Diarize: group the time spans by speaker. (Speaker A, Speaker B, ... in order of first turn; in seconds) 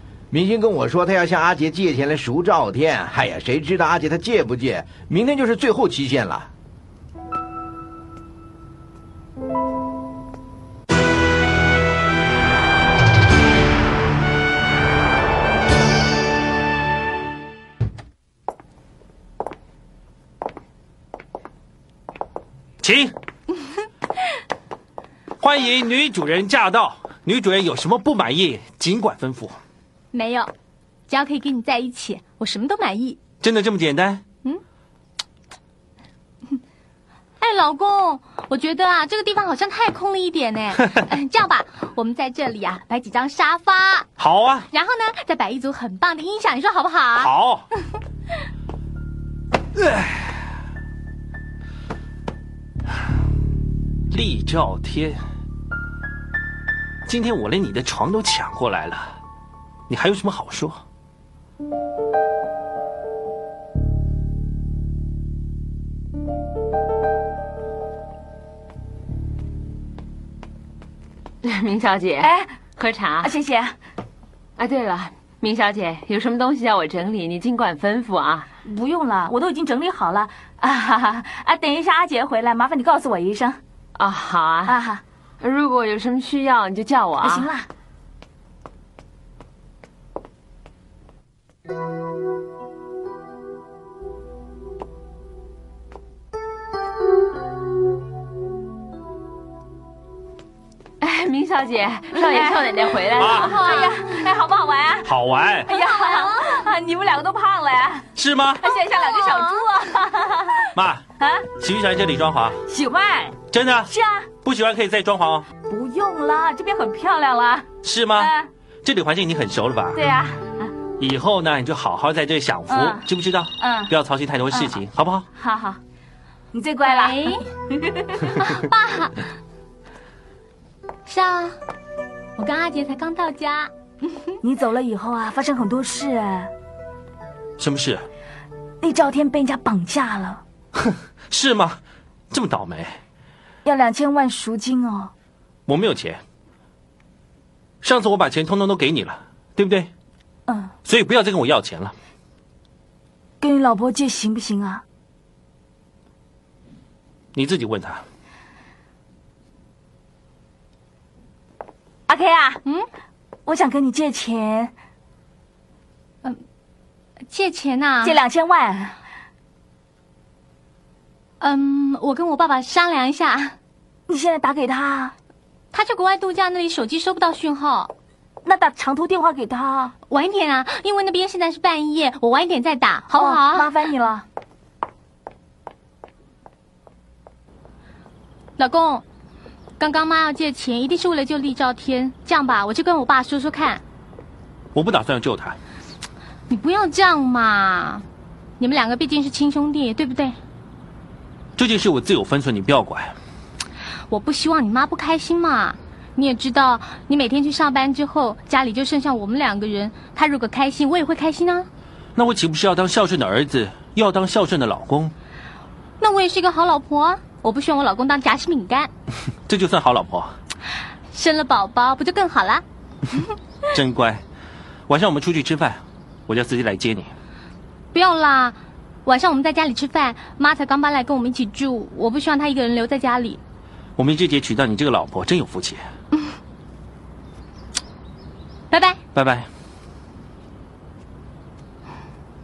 Speaker A: 0.3-6.5
Speaker B: 22.8-23.1, 25.4-29.6, 33.4-34.2, 44.2-44.7, 47.2-47.6, 54.1-55.2, 57.1-59.2, 59.9-60.8, 103.2-103.5, 105.1-105.7, 108.2-108.7, 110.8-111.0, 111.5-112.6, 113.5-113.9, 114.4-115.5, 117.8-118.3, 118.8-120.0, 121.0-125.3, 137.6-138.1, 141.3-141.8, 142.3-143.0, 145.7-146.2, 147.8-149.9, 150.8-151.9, 157.3-158.0, 194.8-195.6, 201.6-203.1, 212.2-215.1, 219.5-220.3, 223.7-224.2, 224.9-227.1, 234.0-235.8, 239.2-239.5
Speaker C: 30.1-30.5, 31.1-33.2, 37.4-44.1, 44.7-47.3, 103.4-104.0, 105.7-106.5, 126.9-127.4, 128.4-129.2, 131.1-131.6, 132.4-133.7, 167.3-168.2, 171.4-173.6, 175.7-177.9, 180.1-183.7, 188.6-189.0, 189.8-193.8, 196.5-198.0, 198.6-200.4, 204.1-211.7, 216.0-218.9, 221.1-222.6, 227.9-233.4, 238.7-239.0
Speaker D: 71.4-73.3, 74.6-78.5, 84.0-84.8, 85.4-87.5, 101.0-103.7
Speaker E: 72.2-72.5, 73.2-73.8, 78.7-83.6, 84.7-85.0, 87.2-87.7, 102.1-105.1, 105.7-108.1, 108.6-110.7, 111.2-111.5, 112.7-113.4, 113.9-114.3, 115.7-118.5, 120.0-120.7, 122.7-123.1, 123.6-123.9, 124.5-124.8, 125.4-125.8, 126.5-128.4, 134.4-136.5, 138.8-140.4, 143.7-145.1, 150.5-150.7, 153.4-154.8, 162.1-162.6, 163.5-164.7, 168.0-169.0, 174.1-175.1, 178.4-179.9, 183.1-184.2